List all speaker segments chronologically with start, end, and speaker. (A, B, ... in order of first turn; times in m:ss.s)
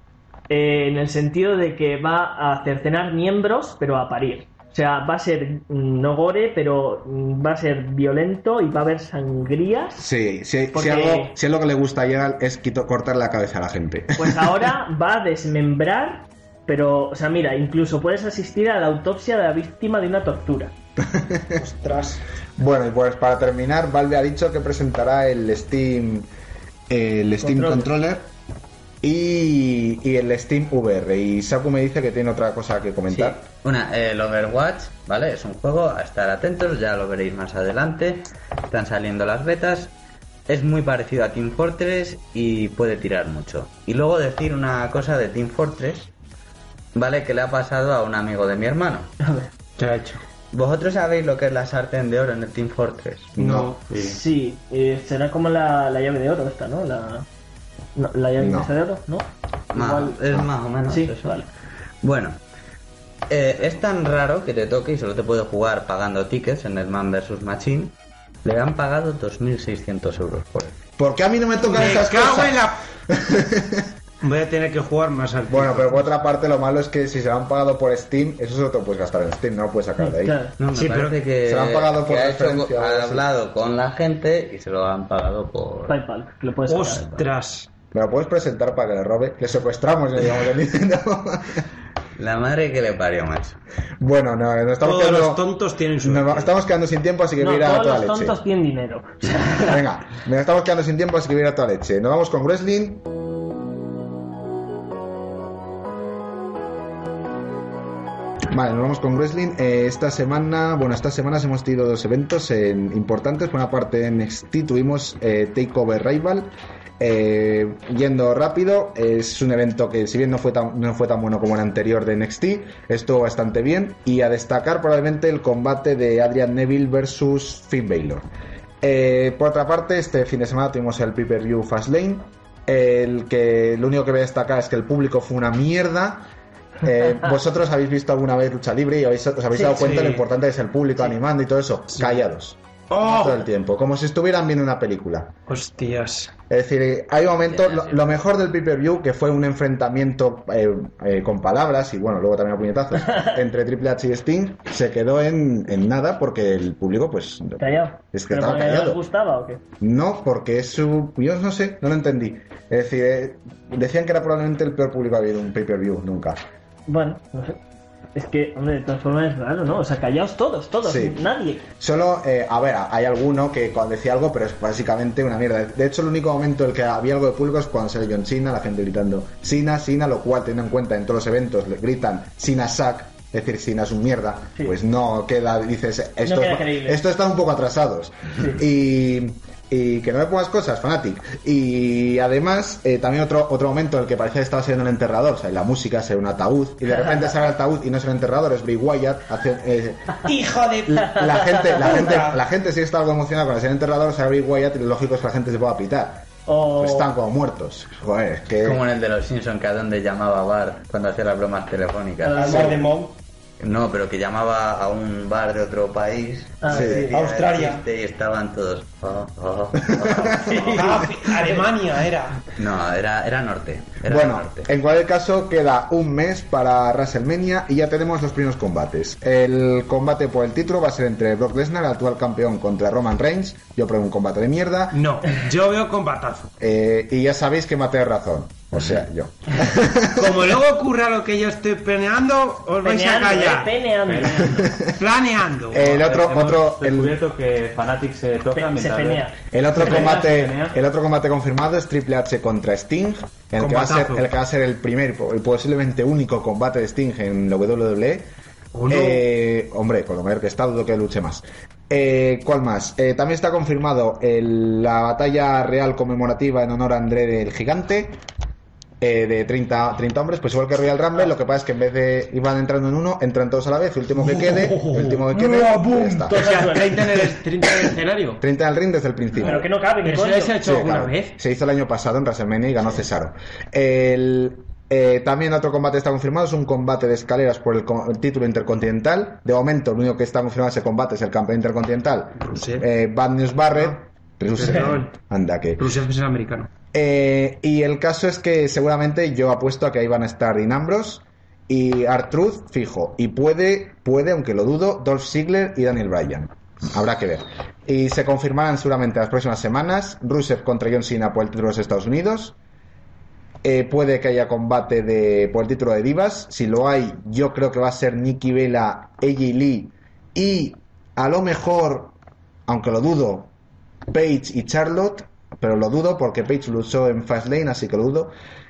0:00.5-0:10.1 A
0:10.0-0:14.7 B
0:10.7-0:11.3 A
0:14.2-0:20.7 A
0:21.0-0:21.6 B
0:21.6-0:22.2 C
0:22.6-0:26.3 B
0:26.9-0:28.3 B
0:27.4-0:27.9 A
0:29.0-0:33.4 B
0:33.1-0:39.9 D
0:40.5-0:46.1 D
0:46.9-0:49.1 D
0:49.2-0:49.5 A
0:49.8-0:50.2 C
0:50.5-0:53.3 D
0:53.3-0:53.7 B
0:53.4-0:53.8 C
0:53.9-0:54.2 E
0:54.0-0:57.2 A
0:58.0-1:00.2 A
0:58.4-0:58.7 B
0:59.7-1:01.4 D
1:00.9-1:01.5 A
1:02.0-1:02.4 D
1:03.3-1:10.8 D
1:11.0-1:13.9 B
1:11.6-1:12.8 C
1:14.2-1:16.1 C
1:15.5-1:20.4 B
1:20.0-1:20.6 A
1:20.6-1:26.0 D
1:20.7-1:21.2 C
1:21.4-1:23.2 B
1:25.9-1:27.2 A
1:26.7-1:27.7 C
1:27.9-1:31.6 B
1:32.2-1:33.6 D
1:34.0-1:35.4 B
1:34.8-1:36.5 C
1:36.0-1:38.4 B
1:37.4-1:39.8 A
1:39.5-1:43.0 B
1:48.5-2:08.2 B
2:08.8-2:16.3 B
2:16.8-2:25.3 B
2:19.6-2:20.2 C
2:21.9-2:22.2 C
2:22.9-2:23.3 C
2:25.5-2:26.3 C
2:26.5-2:39.0 B
2:27.5-2:28.2 D
2:37.6-2:39.6 A
2:39.8-2:46.4 B
2:46.9-2:47.6 A
2:48.1-2:51.6 A
2:50.8-2:51.2 B
2:51.8-3:20.3 B
3:06.2-3:07.0 A
3:20.2-3:22.4 C
3:20.8-3:28.8 B
3:21.2-3:22.0 A
3:26.5-3:27.1 A
3:28.6-3:32.8 D
3:32.2-3:32.9 A
3:32.3-3:33.2 C
3:33.6-3:41.1 D
3:36.6-3:37.2 A
3:36.7-3:37.1 B
3:37.1-3:37.8 C
3:39.8-3:41.3 B
3:40.5-3:42.4 C
3:42.5-3:44.7 D
3:44.0-3:55.0 B
3:54.9-3:56.5 C
3:56.6-4:00.6 B
4:00.1-4:03.8 C
4:02.8-4:04.8 A
4:04.0-4:04.6 E
4:04.6-4:04.9 B
4:04.9-4:06.1 C
4:05.7-4:07.2 B
4:06.0-4:10.8 E
4:08.5-4:10.0 A
4:09.5-4:18.3 B
4:13.6-4:14.2 C
4:18.7-4:19.2 C
4:18.9-4:28.2 B
4:29.0-4:36.7 B
4:34.2-4:38.4 C
4:36.3-4:37.4 A
4:38.4-4:39.7 B
4:39.4-4:40.6 A
4:40.0-4:41.3 C
4:40.6-4:55.9 B
4:52.4-4:52.9 C
4:54.5-4:55.1 C
4:55.8-4:56.7 C
4:56.9-5:12.6 B
5:13.6-5:22.1 B
5:22.7-5:23.5 B
5:24.1-5:28.3 B